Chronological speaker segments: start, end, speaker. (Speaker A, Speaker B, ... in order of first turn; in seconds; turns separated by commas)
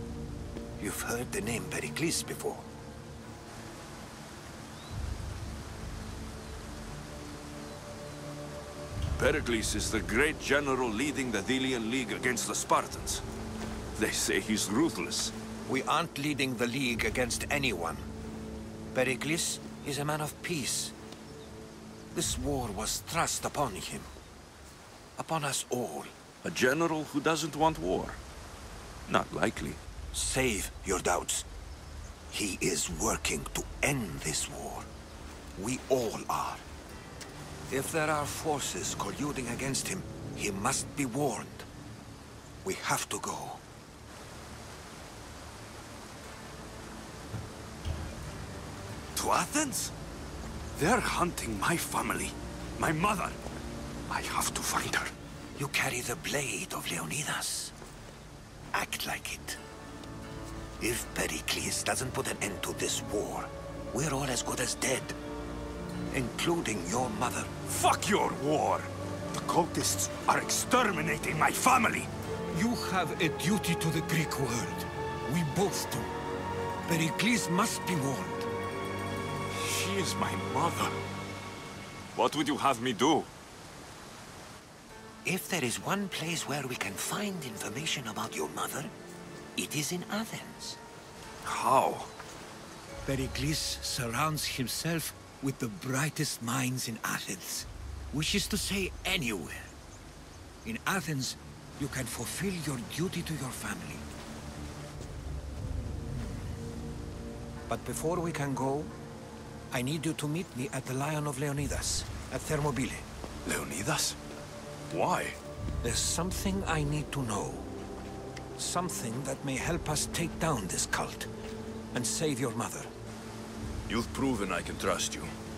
Speaker A: 0.8-2.7, Speaker B: 9.2-13.2, Speaker B: 13.9-15.3, Speaker A: 15.7-18.1, Speaker A: 18.9-20.9, Speaker A: 22.1-24.1, Speaker A: 25.2-26.1, Speaker B: 26.4-28.2, Speaker B: 29.1-29.8, Speaker A: 30.1-31.4, Speaker A: 32.3-34.9, Speaker A: 35.6-36.6, Speaker A: 37.7-41.7, Speaker A: 42.6-43.6, Speaker B: 49.2-49.9, Speaker B: 50.8-53.4, Speaker B: 54.1-55.1, Speaker A: 55.6-57.7, Speaker A: 58.7-59.6, Speaker A: 60.8-65.2, Speaker A: 66.1-67.5, Speaker B: 67.7-72.1, Speaker A: 72.5-76.1, Speaker A: 76.9-78.5, Speaker B: 79.5-80.9, Speaker B: 82.1-83.3, Speaker A: 85.2-88.9, Speaker A: 89.6-90.8, Speaker B: 91.4-92.1, Speaker A: 93.0-99.7, Speaker A: 100.6-104.0, Speaker A: 106.1-106.4, Speaker A: 107.7-108.9, Speaker A: 109.7-113.1, Speaker B: 113.5-114.2, Speaker B: 114.9-115.4, Speaker A: 115.8-117.7, Speaker A: 118.6-121.3, Speaker A: 121.9-122.9, Speaker B: 123.9-125.3